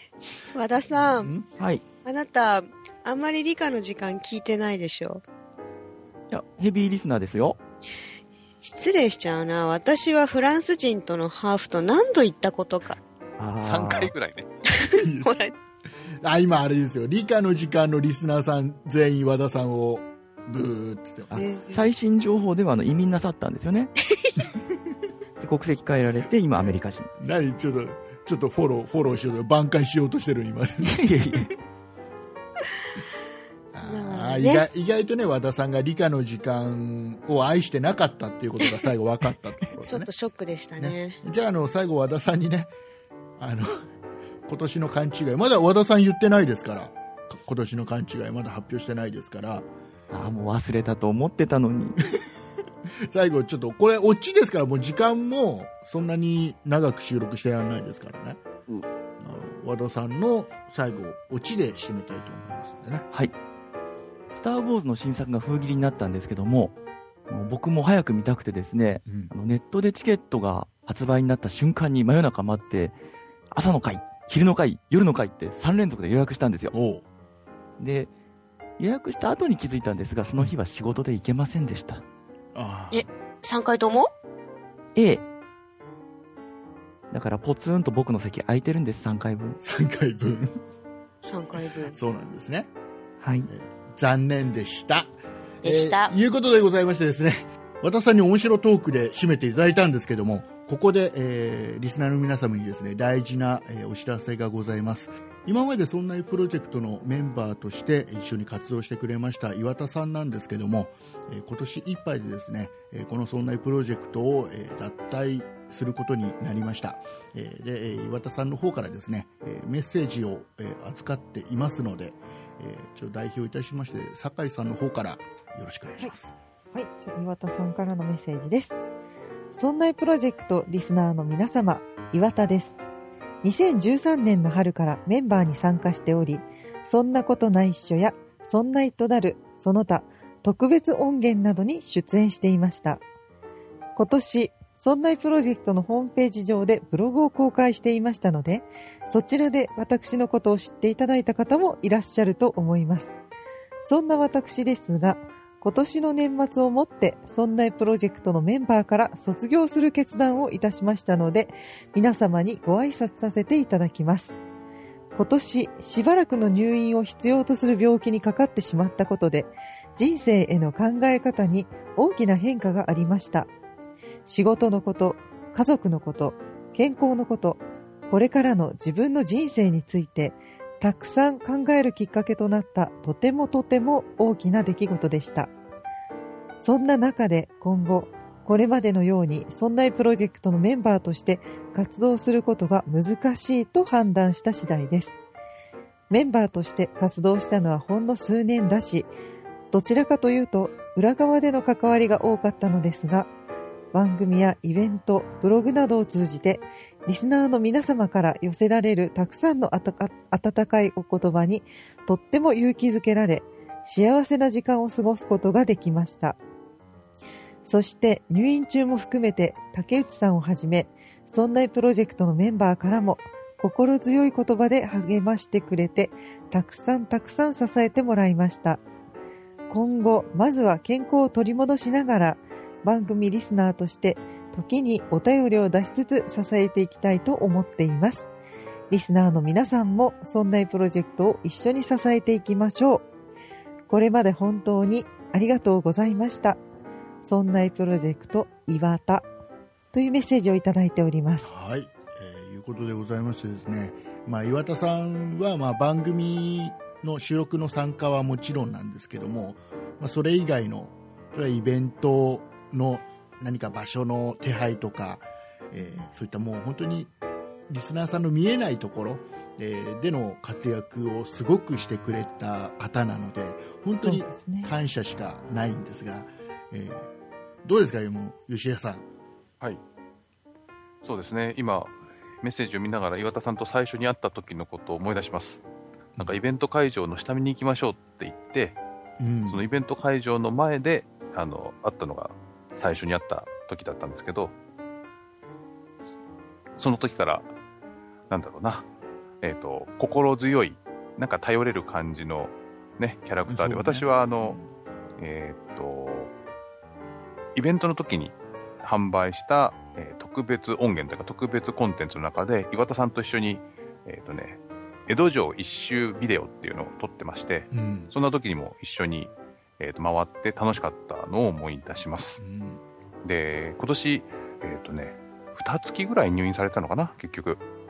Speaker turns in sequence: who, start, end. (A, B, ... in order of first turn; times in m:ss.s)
0:00.5-0:01.3 A
0:01.0-0:01.4 B
0:01.6-0:01.8 C
0:02.0-0:05.2 A
0:06.3-0:07.6 C
0:08.6-0:13.0 A
0:13.4-0:14.1 C
0:13.6-0:14.5 D
0:14.7-0:15.5 A
0:15.0-0:15.3 B
0:16.2-0:21.4 B
0:21.3-0:23.9 C
0:21.3-0:21.8 A
0:25.4-0:27.1 C
0:27.2-0:31.0 B
0:30.8-0:31.5 C
0:33.7-0:40.1 B
0:33.8-0:34.7 A
0:39.9-0:41.2 A
0:40.8-0:42.7 B
0:43.4-0:43.8 B
0:44.5-0:49.7 B
0:50.1-0:52.0 C
0:53.1-0:58.4 B
0:59.2-1:03.1 B
1:04.3-1:06.7 C
1:07.3-1:12.9 C
1:09.0-1:09.3 B
1:13.5-1:16.7 C
1:16.7-1:17.0 B
1:17.8-1:18.1 C
1:18.8-1:22.0 C
1:22.5-1:23.1 B
1:22.9-1:24.1 A
1:24.9-1:25.2 C
1:27.1-1:29.6 C
1:29.6-1:30.6 B
1:31.2-1:32.0 A
1:31.9-1:32.7 B
1:33.2-1:33.5 C
1:33.5-2:06.3 B
1:35.6-1:36.1 A
2:06.7-2:08.8 E
2:09.5-2:12.8 E
2:13.4-2:23.0 E
2:24.0-2:33.1 E
2:33.8-2:44.4 E
2:45.1-2:53.5 E
2:54.2-3:05.5 E
3:06.6-3:15.1 E
3:16.1-3:19.1 E
3:19.7-3:23.3 E
3:23.9-3:36.4 E
3:37.6-3:48.8 E
3:49.7-3:58.3 E
3:58.9-4:03.0 E
4:03.9-4:06.6 E
4:07.2-4:09.3 E
4:09.9-4:11.5 E
4:11.4-4:27.1 B
4:27.7-4:37.1 B
4:34.0-4:34.7 E
4:37.6-4:39.0 B
4:41.0-4:45.6 D
4:46.2-4:48.8 D
4:49.2-4:49.6 B
4:49.5-4:54.5 D
4:56.8-4:57.5 D
4:58.3-4:58.8 D
4:59.4-5:04.6 D
5:03.5-5:04.7 B
5:05.2-5:06.3 D
5:07.6-5:22.4 D
5:17.7-5:18.1 B
5:22.4-5:22.8 B
5:23.2-5:27.6 D